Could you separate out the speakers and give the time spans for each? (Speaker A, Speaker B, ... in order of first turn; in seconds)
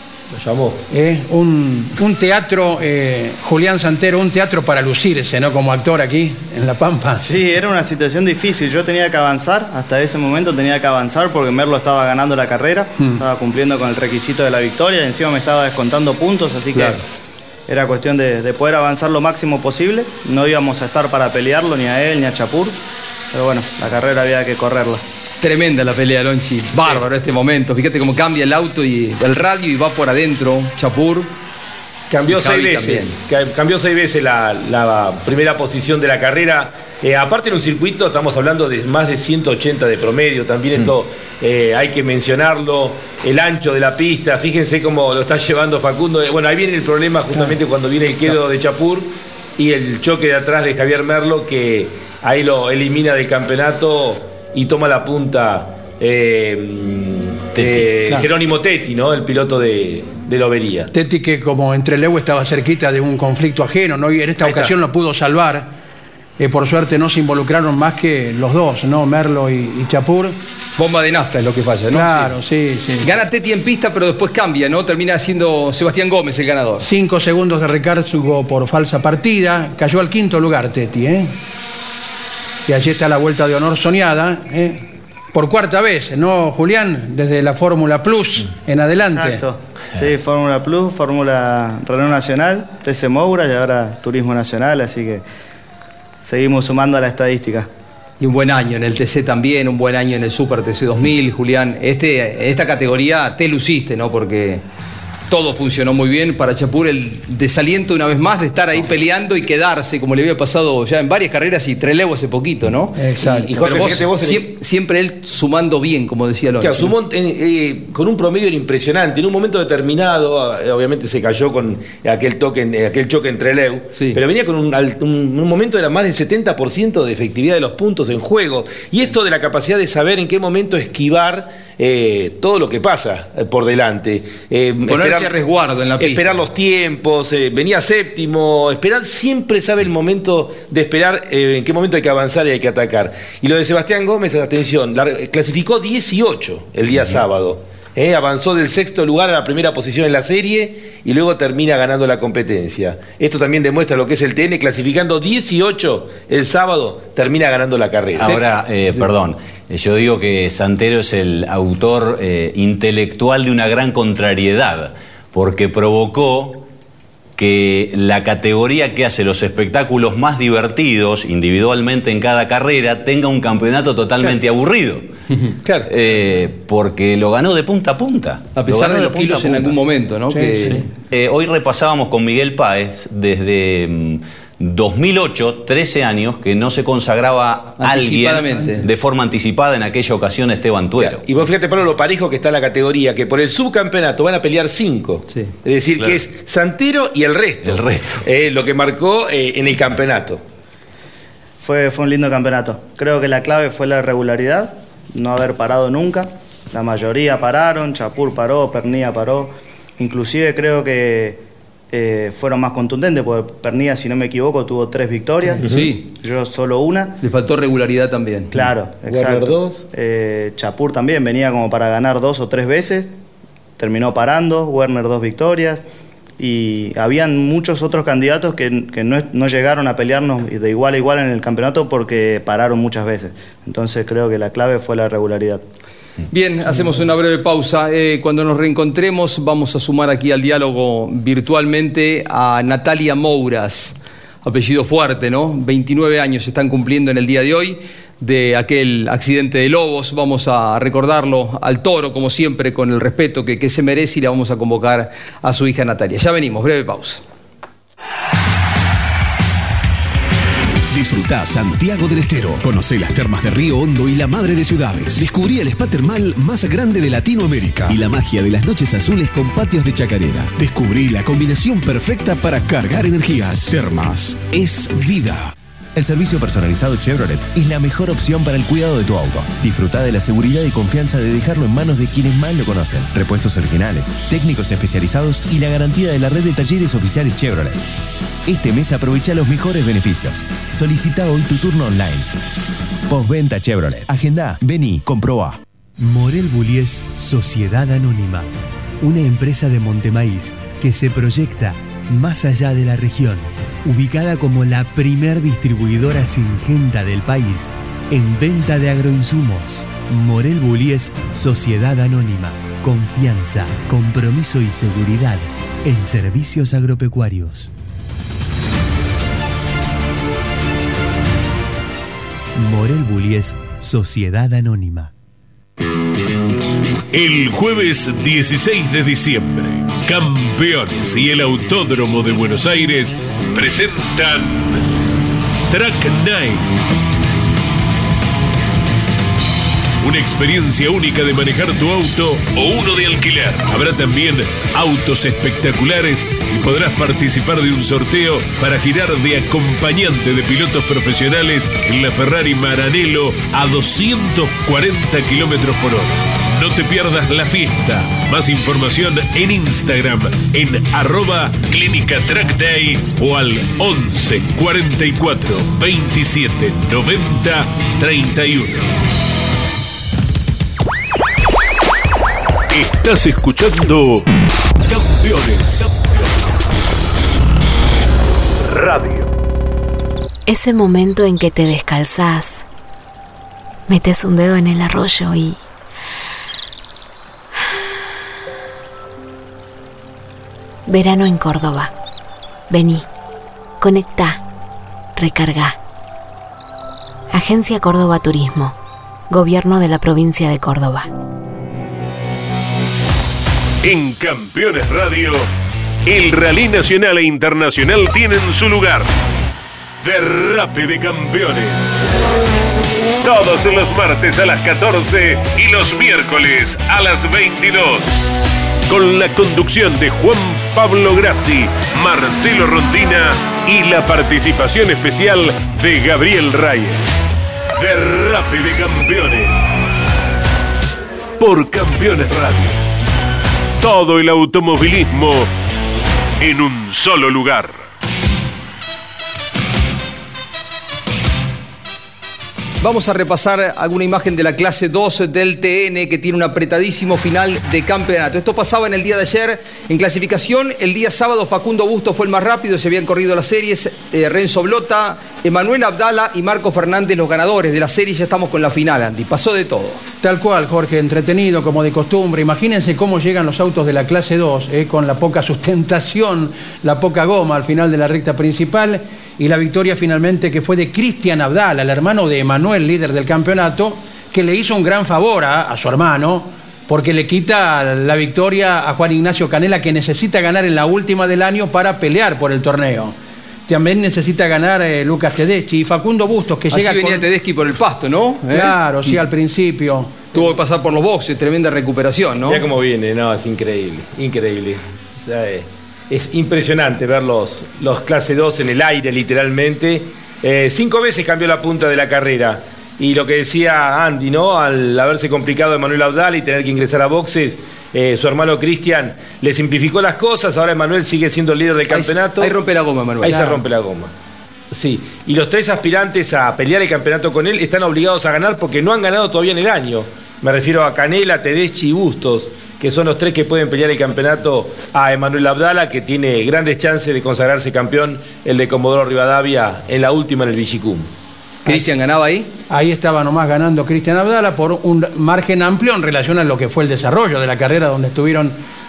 Speaker A: 0.3-0.8, 26.7-27.0, 32.1-60.9, 64.4-64.7, 113.2-114.5, 116.6-135.3, 136.0-158.4, 175.6-175.9, 191.0-200.4, 215.6-215.9, 219.0-219.8, 492.4-512.5, 513.2-514.1, 514.7-531.1
Speaker B: 0.9-7.2, 60.9-65.7, 66.4-70.3, 71.9-73.1, 76.8-81.3, 82.7-89.4, 113.0-113.5, 180.3-180.8, 460.2-483.1, 483.7-487.2, 488.5-490.3, 532.7-538.6
Speaker C: 7.2-17.0, 17.7-22.8, 23.3-25.0, 89.1-95.2, 96.2-97.7, 201.6-211.4, 211.9-215.7, 216.2-217.2, 218.5-223.1, 223.8-225.8, 226.4-235.6
Speaker D: 16.7-17.0, 25.4-31.3, 32.3-33.2, 70.8-72.3, 73.0-76.9, 98.2-104.6, 105.3-116.9, 123.9-124.2, 134.8-136.3, 178.5-180.8, 187.8-188.8, 215.6-216.0, 217.2-218.6, 236.3-257.2, 442.8-460.0, 486.7-489.2, 490.3-492.6, 511.9-513.6, 531.6-532.5
Speaker E: 57.6-57.9, 146.9-147.2, 158.2-166.7, 167.4-175.1, 175.9-179.8, 181.1-191.2, 196.0-196.2, 197.6-198.2
Speaker F: 260.9-275.5
Speaker G: 275.9-287.8, 288.4-292.3, 293.1-295.6
Speaker H: 296.0-298.5, 299.0-317.7, 322.6-325.1
Speaker I: 327.1-334.9, 335.7-336.7, 340.0-368.9, 372.7-374.3, 374.9-376.4, 378.6-379.3, 403.8-405.5, 406.1-409.1, 410.0-411.9, 413.2-418.2, 418.9-427.0, 427.8-429.6, 431.4-432.8, 433.8-435.5, 436.4-437.8
Speaker J: 380.4-382.6, 383.9-385.6, 390.9-391.9, 392.7-393.1, 393.8-394.4, 395.1-395.8, 397.3-398.8, 399.3-401.1